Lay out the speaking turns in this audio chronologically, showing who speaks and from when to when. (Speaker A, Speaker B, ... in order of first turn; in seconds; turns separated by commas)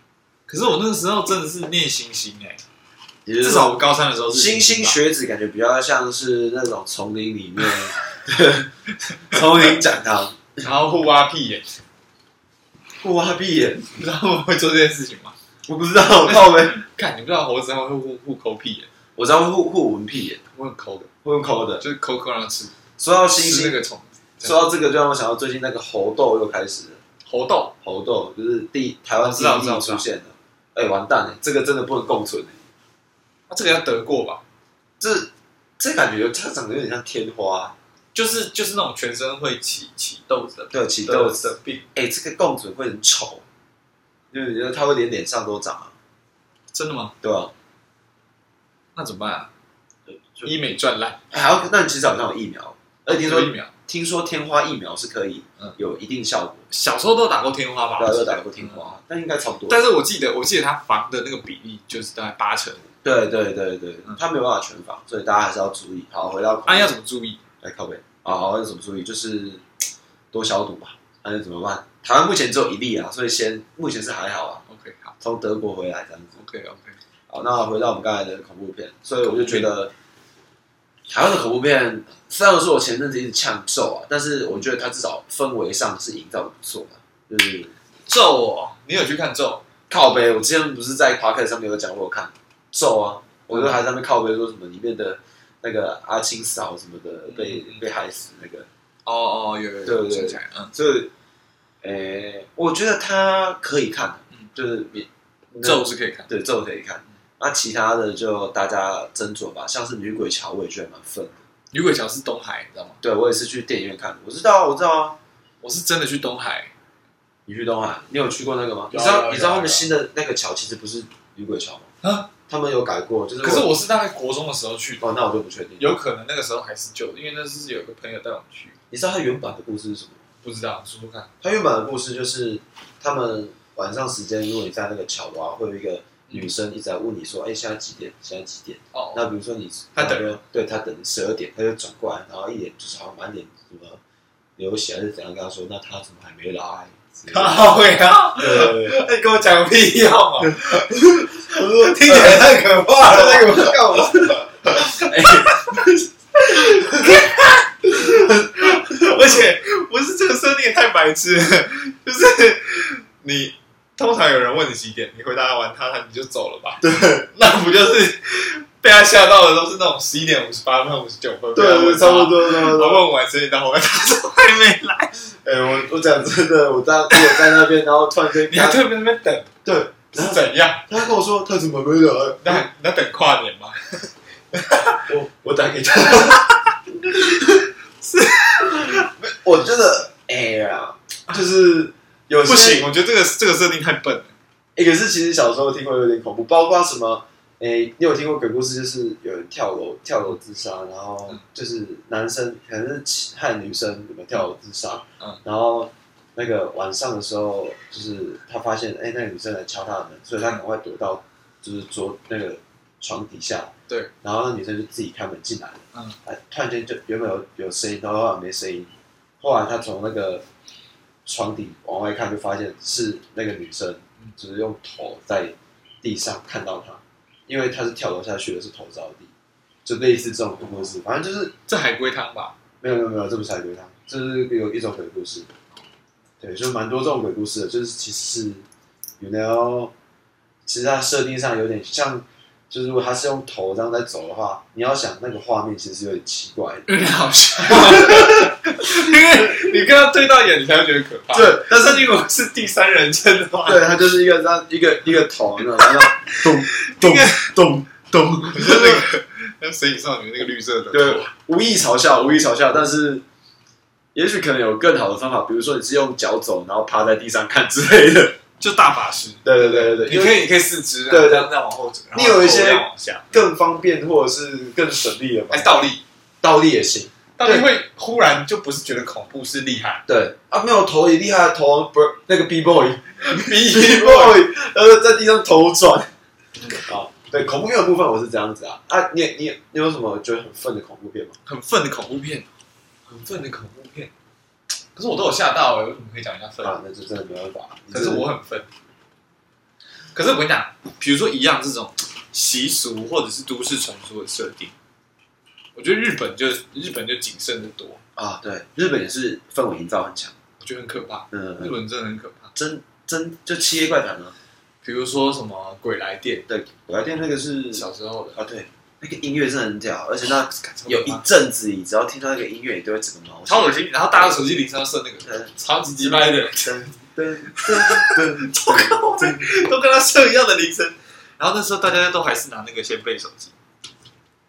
Speaker A: 0.5-2.6, Speaker B: 3.2-3.8, Speaker A: 3.4-5.0, Speaker B: 4.3-8.7, Speaker B: 9.3-10.6, Speaker A: 10.6-11.8, Speaker B: 13.0-13.9, Speaker A: 13.9-15.3, Speaker B: 15.7-16.7, Speaker A: 16.2-18.9, Speaker B: 19.1-20.4, Speaker A: 20.5-21.1, Speaker B: 21.2-21.8, Speaker A: 21.8-22.7, Speaker B: 23.0-23.8, Speaker A: 23.4-24.6, Speaker B: 24.4-27.0, Speaker A: 27.2-27.7, Speaker B: 27.8-32.6, Speaker A: 29.2-30.0, Speaker A: 33.5-34.4, Speaker B: 35.0-37.8, Speaker A: 38.1-41.9, Speaker B: 40.7-43.4, Speaker B: 44.3-45.9, Speaker A: 46.7-47.1, Speaker B: 47.2-47.5, Speaker A: 48.9-49.5, Speaker B: 50.1-50.6, Speaker A: 50.4-51.2, Speaker B: 51.3-56.6, Speaker A: 53.1-53.7, Speaker A: 56.7-58.9, Speaker B: 58.0-59.8, Speaker A: 59.7-62.9, Speaker B: 63.0-66.9, Speaker A: 66.7-67.4, Speaker B: 67.6-69.6, Speaker B: 70.3-74.6, Speaker A: 74.7-75.2, Speaker B: 75.2-76.4, Speaker A: 76.4-77.0, Speaker B: 77.3-79.9, Speaker A: 79.2-79.7, Speaker B: 81.1-87.7, Speaker A: 88.1-89.6, Speaker B: 89.9-98.7, Speaker A: 93.5-93.8, Speaker A: 97.3-97.8, Speaker A: 99.0-100.7, Speaker B: 99.8-101.1, Speaker B: 101.8-105.1, Speaker A: 105.5-106.3, Speaker B: 105.6-111.3, Speaker A: 111.7-113.0, Speaker B: 113.0-115.2, Speaker A: 115.6-116.7, Speaker B: 117.5-121.9, Speaker A: 118.9-119.8, Speaker A: 122.0-122.3, Speaker B: 122.5-123.7, Speaker A: 123.4-125.0, Speaker B: 125.0-125.9, Speaker A: 125.8-128.8, Speaker B: 128.9-130.2, Speaker A: 130.4-131.3, Speaker B: 131.4-144.0, Speaker A: 138.9-139.3, Speaker A: 139.9-140.3, Speaker B: 144.6-147.7, Speaker A: 147.3-150.9, Speaker B: 148.4-148.9, Speaker B: 150.4-156.0, Speaker A: 151.5-175.2, Speaker B: 156.7-157.1, Speaker B: 158.0-159.1, Speaker B: 166.8-167.3, Speaker B: 171.5-173.1, Speaker B: 175.4-178.8, Speaker A: 178.5-179.5, Speaker B: 179.6-182.7, Speaker A: 180.1-180.8, Speaker A: 182.4-185.0, Speaker B: 185.0-186.5, Speaker B: 187.0-187.5, Speaker A: 188.0-189.1, Speaker B: 188.7-192.9, Speaker A: 192.4-194.3, Speaker B: 194.8-213.7, Speaker B: 214.2-220.4, Speaker B: 221.2-229.3, Speaker B: 229.8-231.5, Speaker A: 231.7-232.5, Speaker B: 232.8-235.5, Speaker B: 236.4-238.6, Speaker B: 239.2-239.9, Speaker B: 240.7-246.9, Speaker A: 246.9-253.9, Speaker B: 247.6-249.7, Speaker B: 251.3-252.1, Speaker B: 253.7-259.1, Speaker A: 255.7-257.5, Speaker A: 258.5-261.3, Speaker B: 260.9-263.2, Speaker B: 264.1-268.4, Speaker A: 268.6-273.4, Speaker B: 269.4-270.4, Speaker B: 271.1-271.5, Speaker B: 272.1-275.8, Speaker A: 275.5-276.0, Speaker B: 276.4-277.7, Speaker A: 277.4-280.0, Speaker B: 280.1-286.1, Speaker A: 283.2-284.4, Speaker B: 286.7-291.3, Speaker A: 291.4-292.5, Speaker A: 293.1-294.1, Speaker A: 294.9-296.8, Speaker B: 296.6-298.3, Speaker A: 297.9-298.7, Speaker A: 300.1-304.7, Speaker A: 305.7-308.0, Speaker B: 308.2-310.3, Speaker A: 310.6-312.5, Speaker B: 311.3-311.7, Speaker B: 312.5-314.3, Speaker A: 314.8-316.4, Speaker B: 316.5-324.3, Speaker A: 317.7-318.4, Speaker A: 320.3-321.2, Speaker A: 323.4-326.9, Speaker B: 325.2-329.5, Speaker A: 327.4-333.5